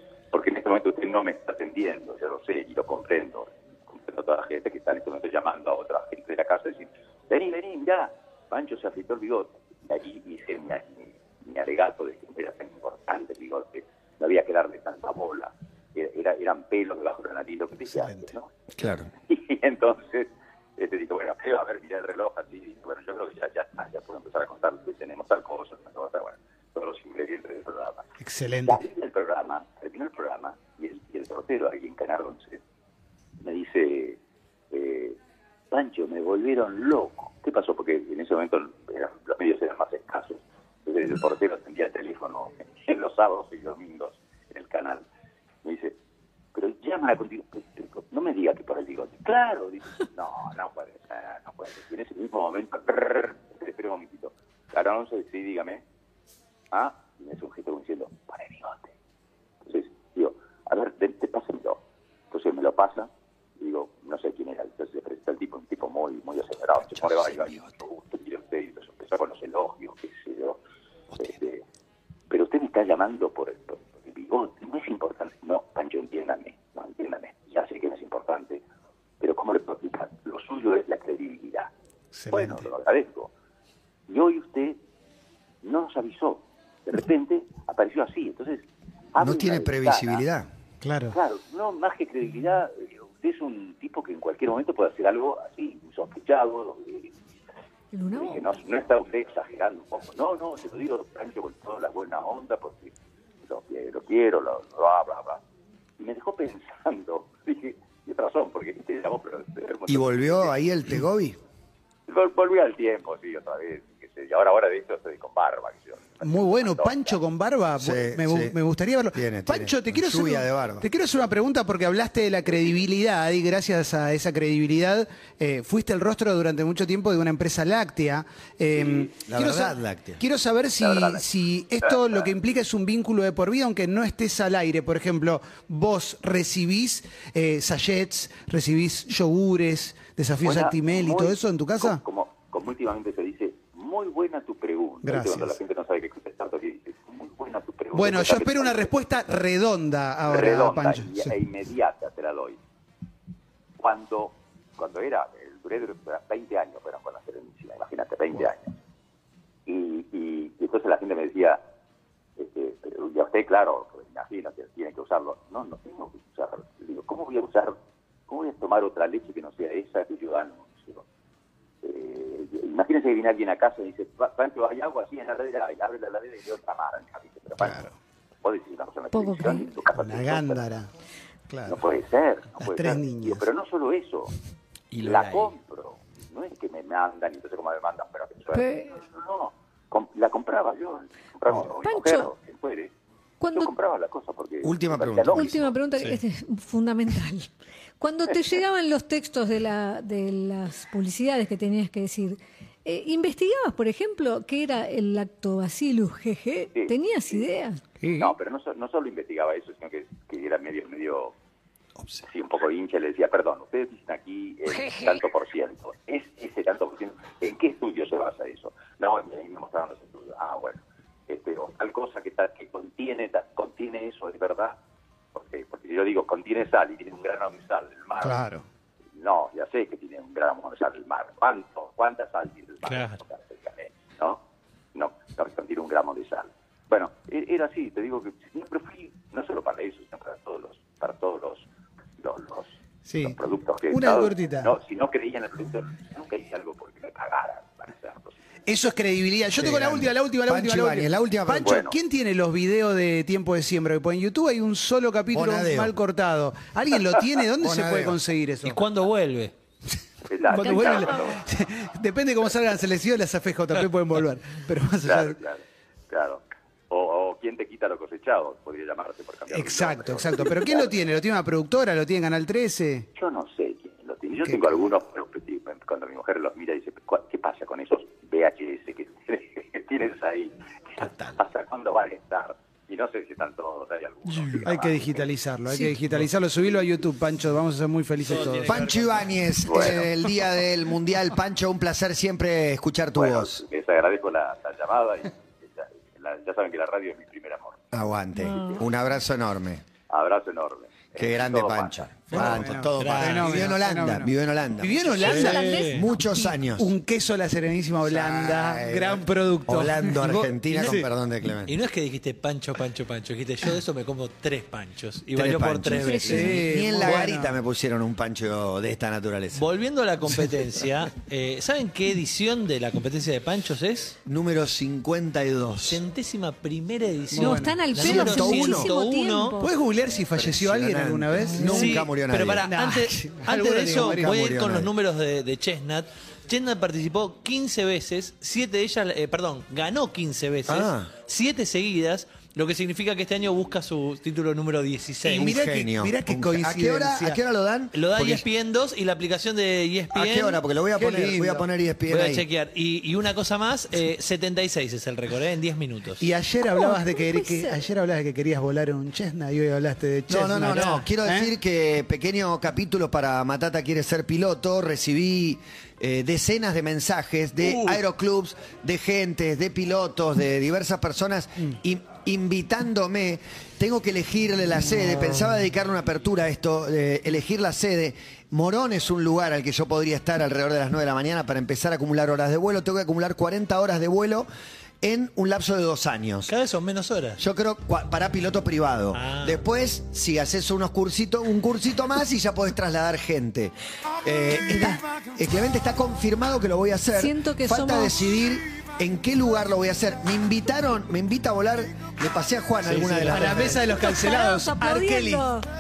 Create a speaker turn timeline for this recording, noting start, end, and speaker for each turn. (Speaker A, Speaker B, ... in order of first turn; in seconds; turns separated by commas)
Speaker A: 0.3-18.5, Speaker B: 18.0-18.3, Speaker C: 18.7-19.1, Speaker A: 19.3-28.1, Speaker B: 28.2-28.8, Speaker A: 28.6-32.6, Speaker A: 33.4-34.2, Speaker A: 34.7-35.2, Speaker A: 35.7-45.0, Speaker A: 45.6-45.9, Speaker A: 46.5-55.8, Speaker A: 56.7-58.9, Speaker A: 59.7-61.8, Speaker A: 62.3-70.6, Speaker A: 71.2-71.6, Speaker A: 72.3-78.6, Speaker A: 79.2-81.7, Speaker B: 82.1-82.7, Speaker A: 82.3-83.3, Speaker A: 84.1-84.8, Speaker A: 85.6-90.2, Speaker C: 89.2-90.5, Speaker B: 90.8-91.2, Speaker A: 91.1-97.1, Speaker D: 97.9-98.4, Speaker A: 98.1-102.9, Speaker A: 103.4-105.4, Speaker A: 106.0-110.5, Speaker C: 109.9-111.4, Speaker A: 112.1-117.2, Speaker B: 116.2-142.0, Speaker C: 117.8-118.6, Speaker C: 119.1-120.9, Speaker C: 129.3-130.2, Speaker A: 130.8-131.3, Speaker A: 131.8-132.3, Speaker A: 140.4-149.0, Speaker B: 145.0-145.6, Speaker B: 147.9-151.3, Speaker A: 150.3-152.6, Speaker A: 153.8-158.7, Speaker A: 159.7-161.6, Speaker A: 162.4-167.7, Speaker A: 168.3-171.0, Speaker A: 171.8-177.9, Speaker B: 177.6-177.9, Speaker A: 178.4-180.6, Speaker D: 179.1-179.7, Speaker B: 179.9-180.9, Speaker B: 181.5-181.8, Speaker A: 181.7-184.3, Speaker B: 182.6-183.4, Speaker E: 184.9-185.4, Speaker A: 185.0-192.9, Speaker D: 188.5-188.9, Speaker D: 191.8-192.3, Speaker D: 193.4-193.7, Speaker A: 193.5-195.8, Speaker C: 194.6-195.5, Speaker D: 195.3-207.8, Speaker A: 206.7-207.4, Speaker A: 208.2-211.3, Speaker A: 212.2-224.8, Speaker A: 225.3-228.4, Speaker B: 228.2-228.6, Speaker A: 229.2-234.4, Speaker E: 232.9-233.2, Speaker A: 234.9-241.6, Speaker A: 242.2-248.3, Speaker B: 243.1-243.4, Speaker B: 243.9-244.7, Speaker B: 248.7-258.8, Speaker C: 249.6-251.8, Speaker A: 251.6-252.0, Speaker C: 255.3-255.9, Speaker C: 257.6-258.2, Speaker E: 258.6-259.5, Speaker A: 260.3-261.4, Speaker B: 260.5-265.4, Speaker D: 260.6-261.1, Speaker A: 265.0-270.9, Speaker B: 269.5-273.1, Speaker A: 273.1-285.3, Speaker E: 281.0-281.4, Speaker B: 284.6-288.8, Speaker D: 285.7-285.9, Speaker E: 288.2-289.5, Speaker C: 288.6-293.6, Speaker A: 289.7-290.1, Speaker B: 289.7-290.1, Speaker A: 293.2-297.8, Speaker C: 297.9-299.8, Speaker D: 298.4-298.8, Speaker A: 300.1-302.4, Speaker C: 301.2-306.9, Speaker B: 302.3-305.8, Speaker E: 302.9-303.7, Speaker D: 305.2-306.5, Speaker E: 305.2-306.0, Speaker B: 306.8-311.1, Speaker C: 308.1-311.8, Speaker E: 310.7-311.0, Speaker E: 311.7-316.6, Speaker C: 315.3-319.6, Speaker D: 316.0-316.5, Speaker B: 316.3-317.6, Speaker E: 319.5-324.2, Speaker C: 324.3-326.0, Speaker E: 325.8-329.6, Speaker B: 327.3-327.8, Speaker D: 327.4-329.7, Speaker C: 327.9-328.9, Speaker B: 329.6-332.0, Speaker C: 330.3-332.7, Speaker E: 331.6-345.6, Speaker B: 332.6-334.3, Speaker C: 333.9-334.9, Speaker C: 340.7-341.1, Speaker C: 345.2-348.4, Speaker B: 345.3-347.4, Speaker E: 347.9-350.6, Speaker C: 350.1-352.4, Speaker B: 351.0-351.6, Speaker E: 352.1-356.2, Speaker B: 356.2-361.5, Speaker D: 356.7-357.8, Speaker C: 360.3-384.5, Speaker E: 367.6-368.0, Speaker C: 385.0-386.5, Speaker E: 386.5-387.4, Speaker C: 387.4-403.8, Speaker E: 389.1-389.6, Speaker D: 397.2-398.4, Speaker E: 402.8-403.7, Speaker B: 403.3-405.5, Speaker D: 403.9-405.6